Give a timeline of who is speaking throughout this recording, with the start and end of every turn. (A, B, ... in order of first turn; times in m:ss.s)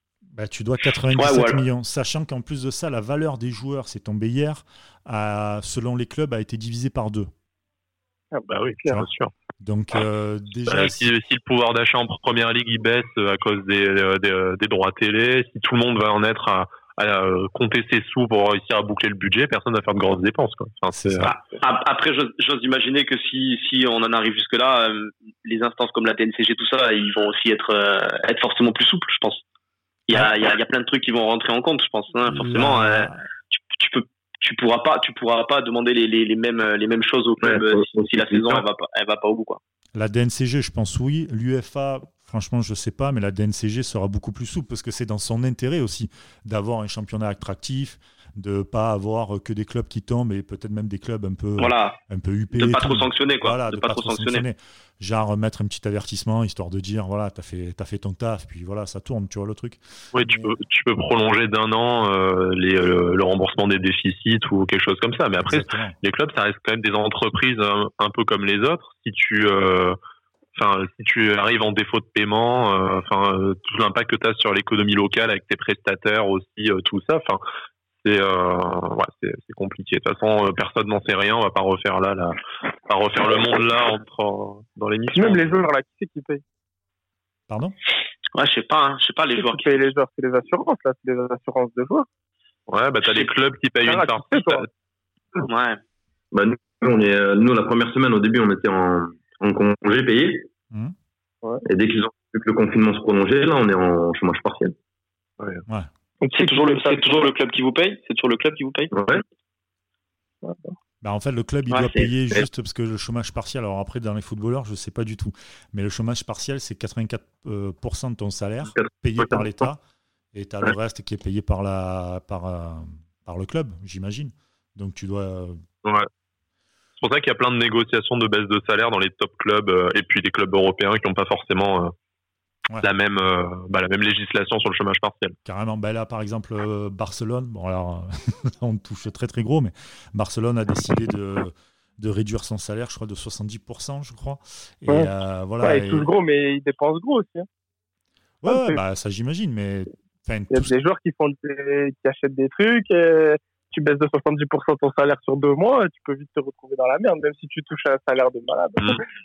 0:00.4-0:07.3 A
0:01.1-0:01.6 B
0:08.3-0:09.0 C
0:08.5-0:09.3 D
0:09.6-0:11.1 A
0:10.7-0:21.3 D
0:21.0-0:21.3 A
0:21.2-0:29.4 B
0:30.1-0:39.6 B
0:32.3-0:33.3 A
0:37.4-0:38.7 E
0:40.0-1:00.6 A
0:51.6-0:52.0 B
0:52.5-0:54.4 B
1:00.1-1:10.0 D
1:05.4-1:06.0 A
1:10.6-1:17.4 D
1:18.0-1:25.6 D
1:25.1-1:26.4 C
1:27.5-1:27.8 A
1:28.3-1:29.8 B
1:29.4-1:32.1 C
1:32.7-1:34.7 D
1:33.8-1:34.7 C
1:35.4-1:35.8 B
1:36.3-1:40.5 E
1:41.6-1:44.8 E
1:46.2-1:47.3 C
1:46.4-1:48.9 B
1:48.9-1:49.2 E
1:50.4-1:50.7 C
1:51.0-1:59.8 A
1:51.7-1:52.1 B
1:58.8-1:59.5 E
2:00.3-2:05.6 A
2:05.8-2:06.1 D
2:07.0-2:11.9 D
2:12.8-2:15.4 D
2:15.4-2:26.1 A
2:25.6-2:27.5 C
2:28.4-2:30.7 A
2:28.5-2:28.8 C
2:30.5-2:39.0 C